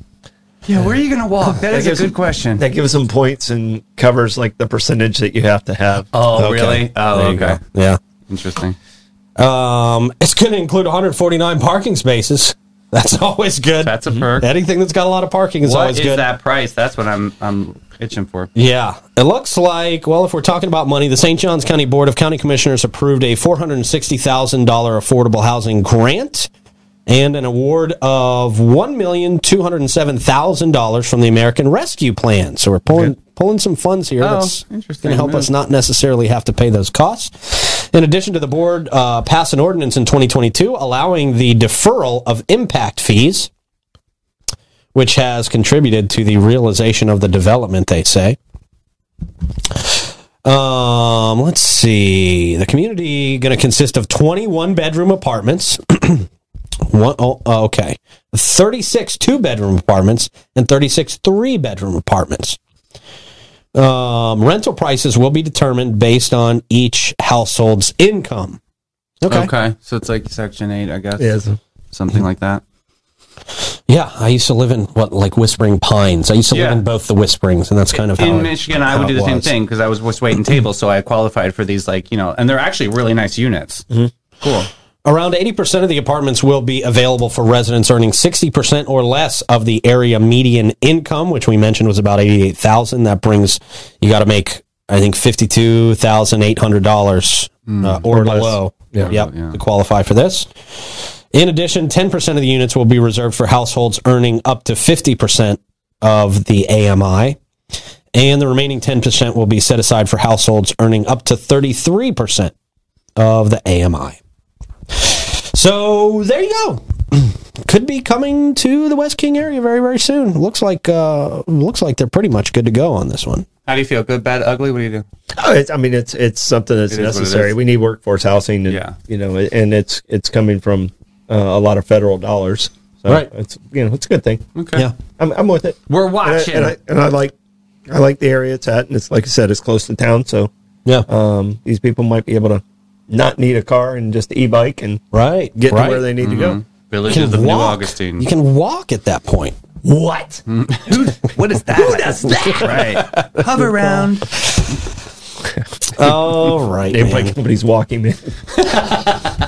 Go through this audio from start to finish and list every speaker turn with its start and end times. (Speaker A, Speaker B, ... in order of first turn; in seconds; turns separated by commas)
Speaker A: 0.6-2.6, Speaker B: 1.7-6.1, Speaker A: 6.1-7.6, Speaker C: 6.3-8.0, Speaker A: 8.3-8.8, Speaker C: 9.4-16.3, Speaker A: 13.8-14.5, Speaker A: 15.6-18.5, Speaker C: 18.6-26.5, Speaker C: 27.1-43.5, Speaker A: 34.2-35.5, Speaker C: 44.9-48.4, Speaker C: 49.7-56.3, Speaker C: 56.9-62.6, Speaker C: 63.7-68.6, Speaker C: 69.2-69.5, Speaker A: 69.3-71.4, Speaker B: 71.2-71.6, Speaker A: 71.9-72.6, Speaker C: 73.9-79.5, Speaker A: 76.5-76.8, Speaker A: 78.2-83.8, Speaker A: 84.4-84.7, Speaker C: 85.0-100.5, Speaker A: 97.7-98.1, Speaker B: 98.1-99.1, Speaker A: 99.0-99.6, Speaker C: 101.3-107.4, Speaker C: 108.1-112.5, Speaker C: 113.2-114.2, Speaker C: 114.9-123.5, Speaker A: 123.7-125.0, Speaker B: 125.4-134.4, Speaker A: 126.9-127.6, Speaker A: 128.7-129.0, Speaker A: 134.6-134.9, Speaker B: 135.2-137.3, Speaker A: 135.9-136.7, Speaker B: 137.9-140.5, Speaker B: 141.1-145.0, Speaker C: 145.1-146.1, Speaker B: 145.6-146.6, Speaker A: 146.2-148.3, Speaker C: 147.1-149.6, Speaker B: 149.8-150.4, Speaker A: 150.5-154.4, Speaker B: 151.7-152.9, Speaker C: 151.9-154.6, Speaker C: 155.9-157.4, Speaker B: 156.0-156.3, Speaker B: 156.9-158.6, Speaker C: 158.7-159.2